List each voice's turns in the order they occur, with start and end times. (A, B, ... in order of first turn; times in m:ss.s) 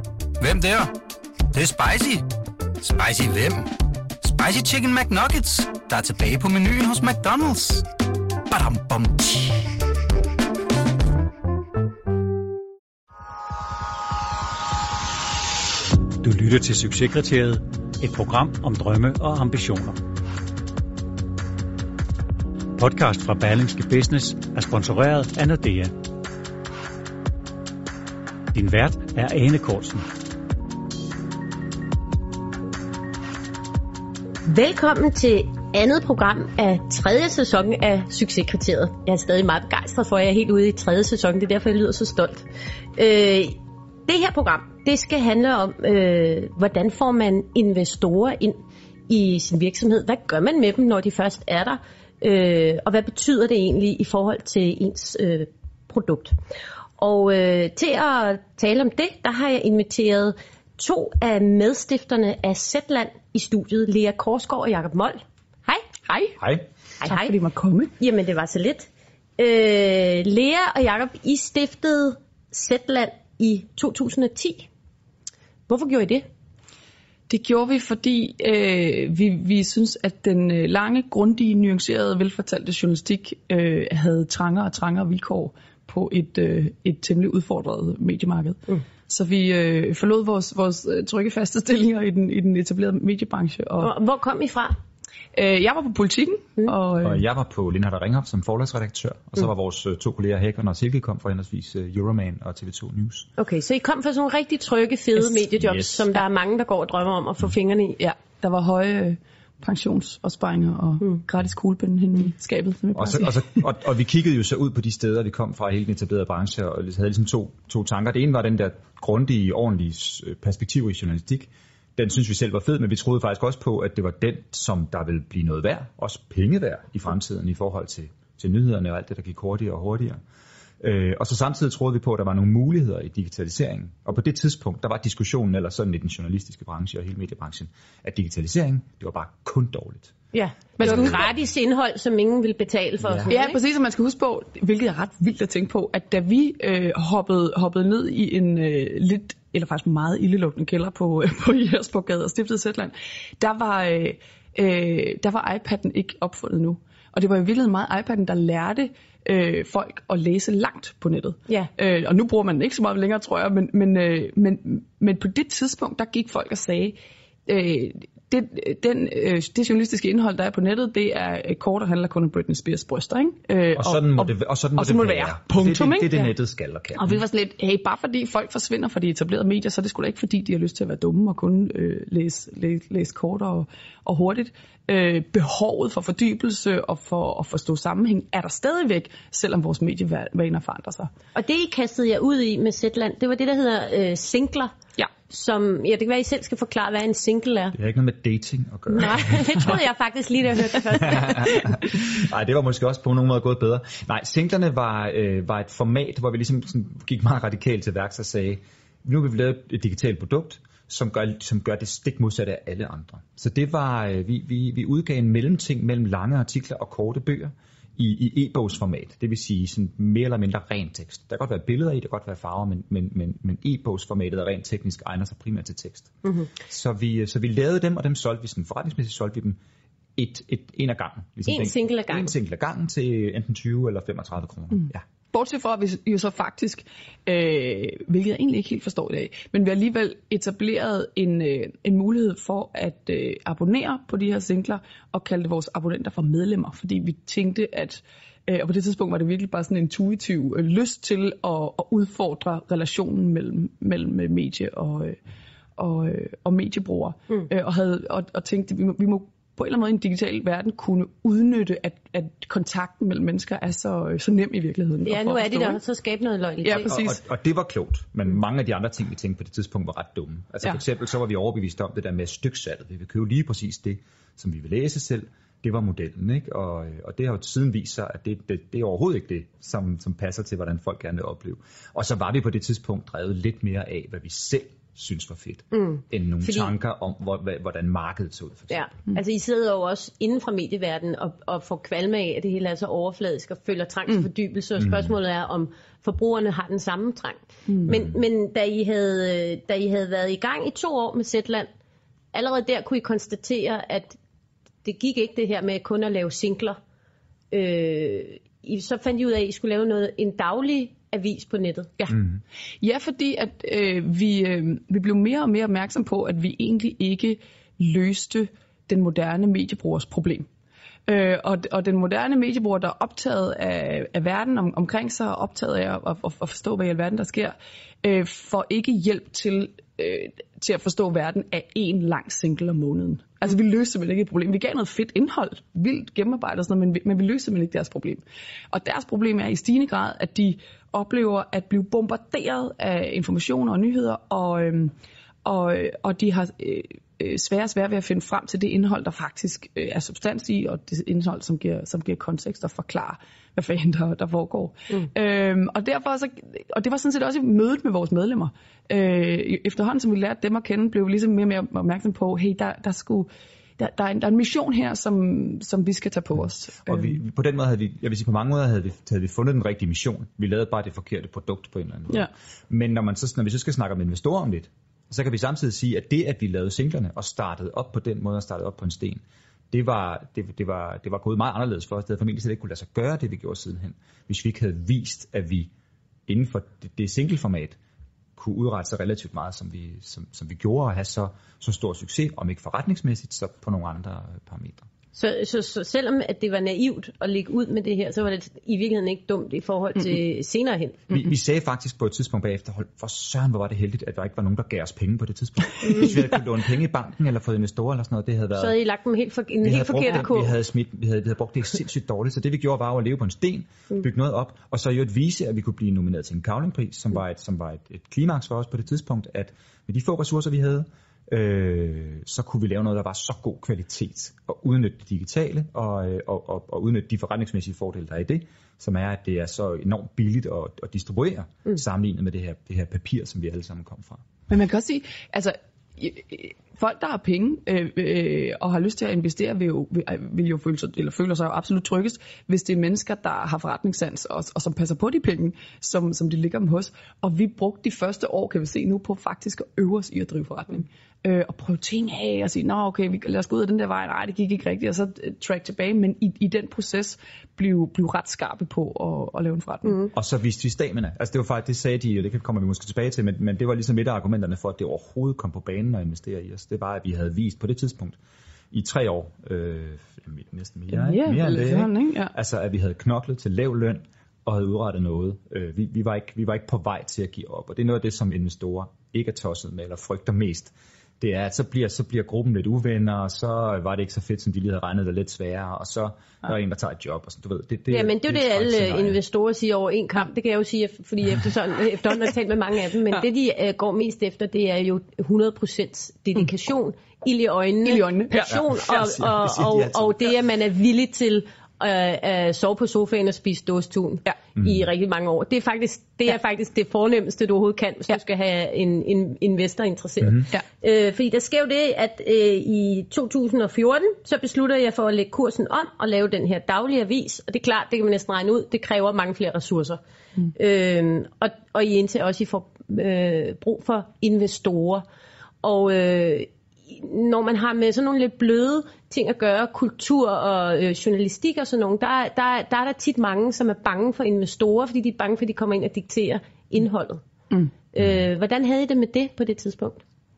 0:00.4-0:00.9 A
0:01.5-0:02.2 A
0:02.8-0:07.8 A
0:08.5-0:09.7 A
0:16.2-0:20.0 B
0:22.8-0:25.9 B
0:28.5-0:30.1 B
0:34.4-0:56.4 C
0:57.0-1:05.8 C
1:06.1-1:06.4 D
1:06.4-1:06.6 E
1:07.0-1:07.4 C
1:07.0-1:07.9 D
1:08.0-1:14.7 C
1:15.7-1:16.3 C
1:17.3-1:33.9 D
1:33.8-1:34.8 C
1:35.3-1:37.2 D
1:37.0-1:43.3 E
1:43.4-1:48.0 C
1:45.6-1:46.1 E
1:48.0-1:53.6 D
1:52.9-2:10.2 E
2:10.8-2:20.1 E
2:20.3-2:23.6 C
2:20.8-2:21.4 E
2:23.0-2:23.3 E
2:23.3-2:47.0 D
2:47.5-2:56.1 D
2:53.8-2:57.2 E
2:57.0-3:11.1 D
3:11.4-3:14.7 C
3:15.3-3:17.8 C
3:17.7-3:19.8 E
3:18.9-3:21.7 C
3:21.0-3:49.6 E
3:46.2-3:46.5 C
3:50.2-3:55.0 E
3:51.5-3:52.3 C
3:55.3-4:15.2 D
4:15.8-4:25.8 D
4:25.0-4:26.9 C
4:26.6-4:27.2 D
4:26.7-4:48.9 E
4:45.7-4:46.7 C
4:48.7-5:01.7 C
4:54.8-4:55.1 E
4:57.9-4:58.1 E
5:02.3-5:04.2 C
5:04.8-5:06.8 C
5:07.5-5:11.9 C
5:12.8-5:20.5 D
5:21.1-5:44.9 D
5:45.4-6:07.2 D
6:06.9-6:25.7 E
6:26.3-6:27.8 E
6:28.4-6:34.9 E
6:35.1-6:41.1 C
6:41.1-6:48.8 E
6:45.8-6:46.1 C
6:48.6-6:50.6 C
6:49.6-7:14.2 E
7:14.5-7:40.0 D
7:40.1-7:48.2 E
7:48.7-8:09.2 E
7:50.9-7:52.3 D
8:07.9-8:40.0 C
8:17.8-8:18.6 D
8:18.5-8:20.2 E
8:24.6-8:24.8 E
8:40.6-8:45.0 C
8:45.6-8:57.2 C
8:57.9-9:00.0 C